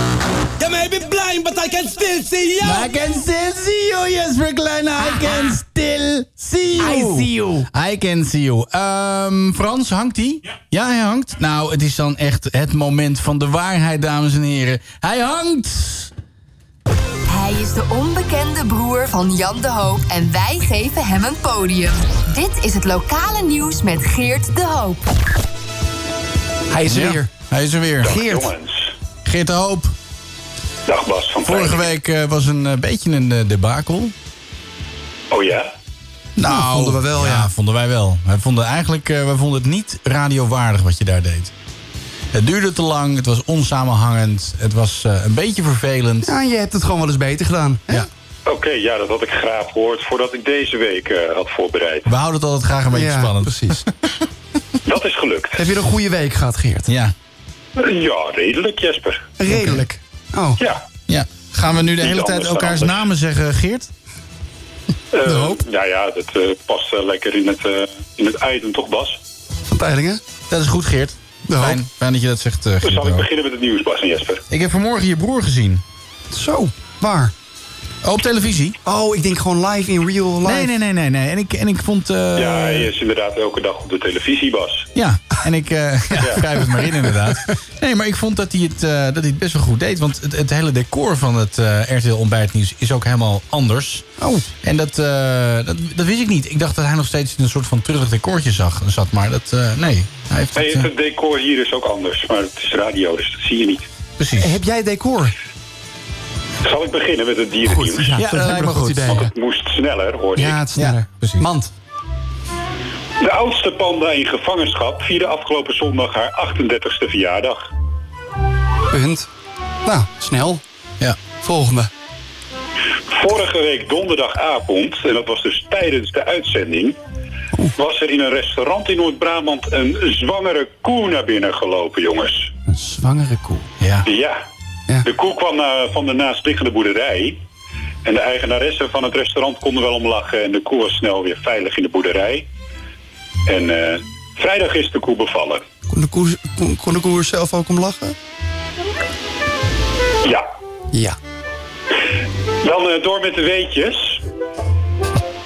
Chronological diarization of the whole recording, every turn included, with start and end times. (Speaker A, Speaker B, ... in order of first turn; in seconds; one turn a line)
Speaker A: 0.6-2.9
Speaker B: 2.6-16.1
Speaker C: 6.8-7.6
Speaker D: 17.3-25.1
Speaker C: 26.7-27.3
Speaker B: 26.9-28.2
Speaker E: 28.0-28.9
Speaker C: 28.0-28.5
Speaker B: 29.2-29.9
Speaker E: 30.9-31.9
Speaker B: 31.4-34.1
Speaker E: 35.3-35.7
Speaker B: 36.4-41.5
Speaker C: 36.4-37.5
Speaker B: 42.3-46.3
Speaker C: 46.2-48.1
Speaker E: 48.5-52.1
Speaker B: 52.0-53.9
Speaker C: 52.9-53.8
Speaker E: 54.9-55.6
Speaker C: 55.6-56.9
Speaker B: 56.9-57.1
Speaker E: 57.8-59.2
Speaker C: 59.4-60.6
Speaker B: 59.5-59.8
Speaker B: 61.1-63.9
Speaker E: 62.0-63.0
Speaker E: 65.1-69.2
Speaker C: 65.2-65.6
Speaker C: 69.7-70.2
Speaker B: 70.5-73.2
Speaker C: 71.5-71.8
Speaker E: 72.8-74.4
Speaker B: 74.5-75.8
Speaker C: 76.3-77.3
Speaker B: 78.0-78.8
Speaker C: 78.8-80.7
Speaker B: 80.4-82.9
Speaker E: 82.3-84.9
Speaker B: 84.9-94.0
Speaker C: 94.2-94.5
Speaker B: 94.6-100.9
Speaker E: 100.5-103.8
Speaker B: 104.2-104.6
Speaker C: 104.4-105.3
Speaker E: 106.6-108.2
Speaker C: 107.7-109.3
Speaker B: 108.2-109.2
Speaker E: 109.0-110.6
Speaker C: 110.4-111.7
Speaker B: 110.8-111.5
Speaker E: 113.2-117.7
Speaker C: 118.9-119.3
Speaker C: 119.8-120.6
Speaker C: 121.4-121.9
Speaker E: 123.1-127.0
Speaker E: 127.8-132.5
Speaker C: 132.7-133.6
Speaker B: 133.8-134.1
Speaker E: 134.1-134.4
Speaker E: 135.0-137.4
Speaker E: 138.0-142.5
Speaker E: 143.5-145.6
Speaker C: 145.9-148.1
Speaker C: 150.9-151.2
Speaker E: 152.6-154.2